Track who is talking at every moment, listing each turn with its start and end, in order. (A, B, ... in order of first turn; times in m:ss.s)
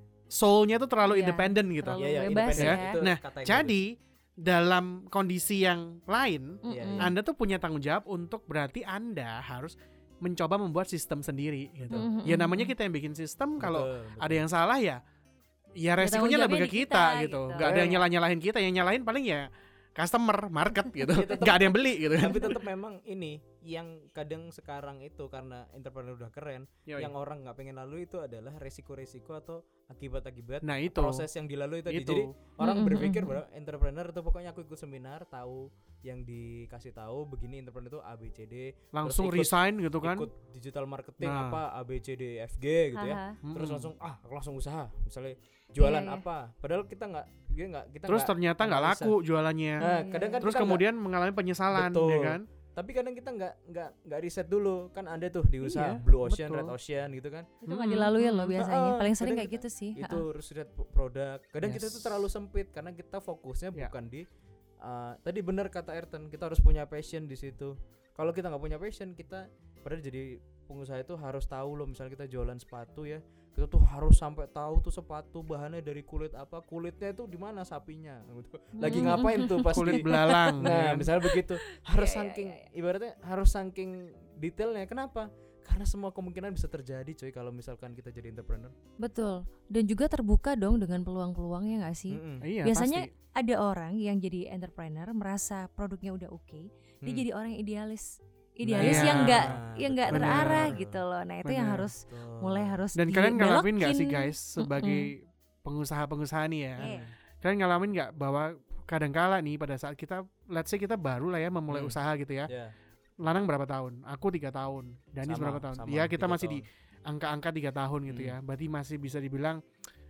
0:00.3-0:15.0 A
0:01.0-0:03.0 B
0:02.0-0:03.8 C
0:06.6-0:07.1 B
0:06.7-0:07.1 C
0:11.9-0:12.7 B
0:13.6-0:14.4 C
0:15.8-0:22.6 A
0:16.0-0:18.0 B
0:17.6-0:18.0 C
0:21.0-0:49.2 C
0:30.6-0:31.2 A
0:31.9-0:32.3 A
0:32.6-0:33.4 B
0:38.9-0:40.3 A
0:41.2-0:41.6 A
0:43.0-0:43.4 B
0:43.4-0:43.9 A
0:45.8-0:46.2 B
0:48.1-0:49.8 A
0:49.8-0:50.8 C
0:49.8-0:50.4 B
0:50.4-0:52.4 A
0:51.7-0:57.5 C
0:55.6-0:56.7 A
0:57.6-0:58.1 A
0:57.7-1:00.2 B
0:58.2-1:04.2 C
1:01.6-1:02.1 A
1:04.8-1:28.7 C
1:18.8-1:20.5 B
1:19.7-1:21.1 A
1:21.7-1:22.6 B
1:29.0-1:45.1 B
1:32.1-1:32.5 C
1:32.4-1:33.1 A
1:38.6-1:41.0 C
1:38.8-1:39.5 A
1:40.1-1:40.8 A
1:41.4-1:41.9 A
1:42.1-1:42.8 C
1:43.0-1:52.5 A
1:46.8-1:47.1 C
1:51.7-1:52.7 C
1:53.2-1:59.6 A
1:55.2-1:56.6 C
1:58.1-1:58.4 C